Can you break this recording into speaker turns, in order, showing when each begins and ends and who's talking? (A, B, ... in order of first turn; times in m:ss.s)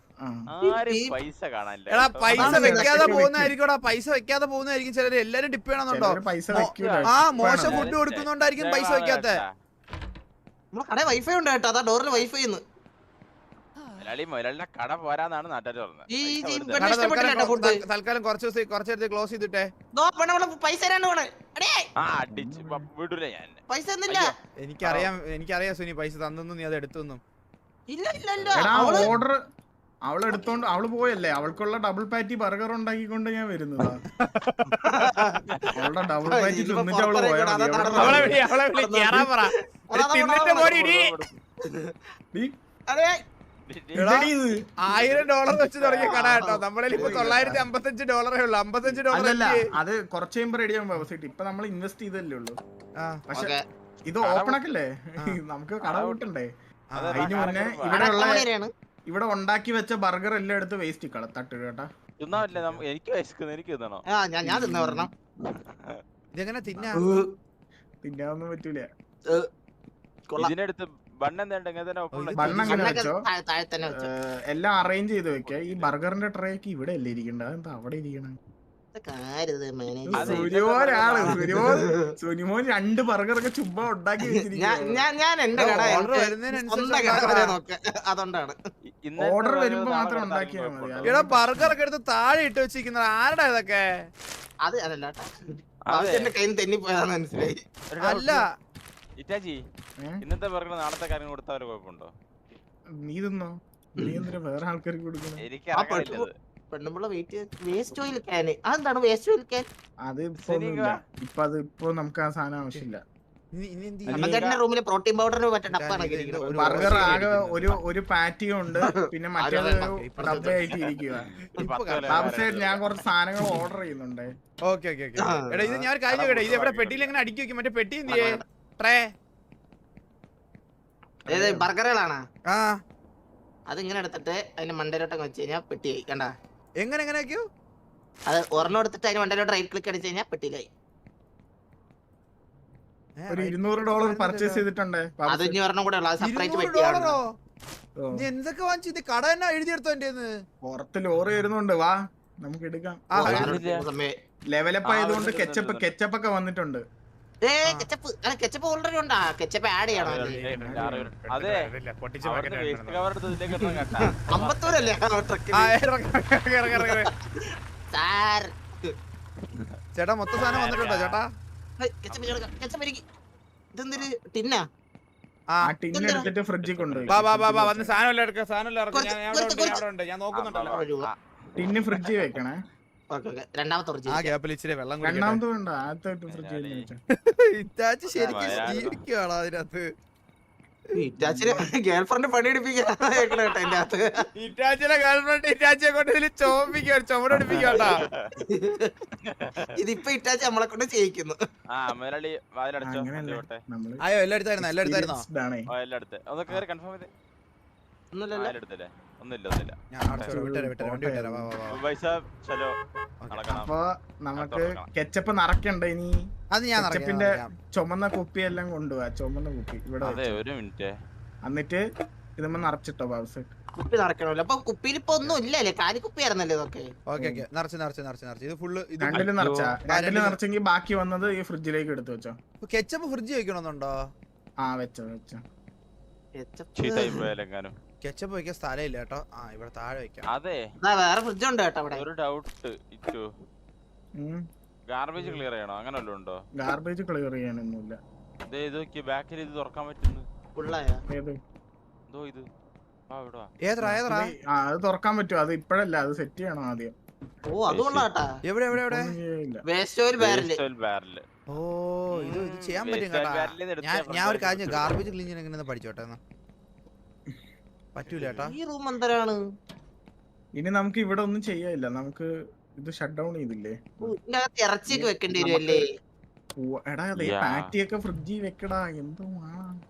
0:00.2-0:00.5 A
0:00.5-0:02.6 B
0:00.6-0:01.1 C
0:01.9-0:09.4 D
0:02.4-0:03.6 A
0:02.4-0:03.2 C
0:05.9-0:08.0 A
0:06.6-0:09.5 B
0:10.8-0:12.6 C
0:14.0-0:17.1 B
0:16.1-0:17.8 C
0:16.8-0:19.7 D
0:20.0-0:21.9 C
0:22.0-0:25.1 B
0:22.3-0:22.9 A
0:23.7-0:24.3 C
0:24.6-0:27.2 D
0:27.9-0:29.1 C
0:28.5-0:29.4 A
0:30.1-0:34.0 A
0:34.1-0:34.9 D
0:34.7-0:42.0 C
0:35.5-0:35.8 B
0:35.7-0:38.3 A
0:38.0-0:41.2 D
0:38.0-0:38.3 B
0:42.9-0:43.2 C
0:43.7-0:44.2 B
0:44.0-0:44.6 A
0:44.0-0:49.7 D
0:44.9-0:46.2 B
0:45.9-0:47.5 C
0:46.9-0:47.6 A
0:49.1-0:52.6 A
0:53.3-0:53.6 A
0:53.3-0:53.6 C
0:54.1-0:56.5 A
0:54.2-0:54.6 B
0:55.8-0:56.2 B
0:56.9-0:57.5 D
0:57.0-0:58.4 B
0:57.1-0:58.4 A
0:57.9-0:58.7 C
0:59.1-1:01.9 A
1:02.2-1:04.0 B
1:02.4-1:02.8 D
1:04.1-1:05.1 C
1:04.4-1:05.1 A
1:05.4-1:06.0 B
1:06.4-1:07.0 D
1:06.9-1:07.3 C
1:08.0-1:08.9 A
1:10.4-1:12.8 B
1:12.1-1:13.0 D
1:12.4-1:13.2 A
1:12.7-1:14.1 C
1:13.9-1:18.4 A
1:15.4-1:15.9 B
1:18.9-1:20.5 C
1:20.0-1:25.0 A
1:20.1-1:21.6 B
1:21.2-1:22.0 C
1:24.3-1:28.6 C
1:25.6-1:27.6 D
1:29.1-1:31.4 B
1:29.2-1:31.7 A
1:31.0-1:34.1 D
1:34.6-1:37.6 C
1:35.9-1:36.3 B
1:37.9-1:38.4 B
1:38.0-1:38.5 D
1:39.2-1:39.6 B
1:40.2-1:42.1 B
1:43.0-1:45.4 A
1:45.4-1:46.3 B
1:45.8-1:49.7 C
1:50.1-1:53.0 A
1:50.4-1:51.0 B
1:53.6-1:54.4 D
1:54.1-1:54.6 B
1:54.1-1:57.2 C
1:55.7-1:57.8 D
1:56.6-2:01.3 A
1:58.8-2:00.5 C
1:59.5-2:00.8 D
2:01.3-2:02.9 B
2:01.6-2:02.4 D
2:02.1-2:04.3 A
2:04.7-2:09.1 D
2:05.2-2:05.8 C
2:06.1-2:07.1 B
2:08.1-2:08.4 C
2:11.3-2:12.2 C
2:11.3-2:11.7 A
2:12.5-2:12.8 D
2:13.7-2:16.3 C
2:16.8-2:17.5 D
2:18.3-2:20.7 C
2:23.2-2:24.6 D
2:23.3-2:25.6 A
2:25.3-2:27.2 C
2:26.2-2:27.3 D
2:28.0-2:28.3 A
2:28.1-2:30.4 D
2:30.6-2:33.4 A
2:33.1-2:33.5 D
2:33.2-2:34.1 C
2:33.2-2:33.9 B
2:34.5-2:36.8 A
2:34.8-2:35.9 B
2:37.4-2:40.4 C
2:40.0-2:41.7 B
2:40.0-2:43.1 D
2:40.6-2:41.1 A
2:42.2-2:45.0 B
2:43.3-2:45.7 C
2:45.5-2:47.1 D
2:46.7-2:48.9 C
2:50.0-2:51.3 D
2:50.4-2:51.2 B
2:51.8-2:53.0 C
2:52.1-2:52.4 B
2:53.8-2:54.6 C
2:55.6-2:58.0 A
2:55.9-2:56.3 C
2:56.6-2:57.2 B
2:57.1-3:00.8 D
2:58.9-2:59.8 C
2:59.7-3:01.2 B
3:00.6-3:01.1 C
3:01.6-3:02.6 A
3:03.1-3:04.3 C
3:04.1-3:05.4 D
3:05.0-3:07.0 A
3:06.3-3:06.9 B
3:07.1-3:09.9 D
3:08.1-3:08.9 C
3:08.2-3:09.0 B
3:10.9-3:14.3 C
3:11.2-3:11.6 A
3:14.4-3:18.0 D
3:17.3-3:18.3 B
3:17.6-3:19.0 C
3:19.2-3:19.8 B
3:19.8-3:21.4 C
3:21.7-3:23.6 B
3:22.8-3:24.0 A
3:24.1-3:25.2 D
3:24.6-3:25.7 A
3:25.7-3:27.1 B
3:28.1-3:28.6 C
3:28.4-3:30.3 B
3:29.9-3:31.8 D
3:30.1-3:31.5 A
3:31.7-3:32.8 B
3:33.2-3:33.6 D
3:33.3-3:33.7 B
3:33.5-3:36.2 A
3:34.4-3:34.9 B
3:36.5-3:37.5 D
3:36.8-3:40.4 A
3:40.0-3:40.9 B
3:41.4-3:41.8 A
3:42.4-3:43.5 A
3:43.7-3:46.9 C
3:47.1-3:49.3 D
3:47.2-3:47.5 A
3:49.0-3:52.4 A
3:49.1-3:49.8 B
3:49.9-3:50.4 D
3:52.6-3:54.1 D
3:54.6-3:55.4 A
3:56.4-3:57.3 C
3:56.8-3:57.8 B
3:58.0-4:00.3 D
4:00.3-4:00.6 B
4:00.8-4:02.0 C
4:01.9-4:03.3 B
4:04.2-4:04.4 A
4:04.9-4:06.4 B
4:06.6-4:08.0 A
4:08.5-4:10.3 B
4:10.6-4:11.0 C
4:11.1-4:11.4 A
4:12.1-4:12.5 B
4:13.1-4:13.5 B
4:13.6-4:14.3 D
4:13.8-4:17.0 A
4:17.5-4:18.3 C
4:17.7-4:18.1 B
4:18.4-4:19.1 D
4:18.7-4:19.6 A
4:19.7-4:20.6 C
4:20.2-4:21.2 B
4:21.5-4:26.2 D
4:22.2-4:25.0 B
4:28.0-4:28.6 D
4:28.2-4:29.4 C
4:30.6-4:34.1 A
4:34.0-4:35.8 C
4:34.9-4:35.8 A
4:36.6-4:39.8 A
4:37.2-4:37.7 B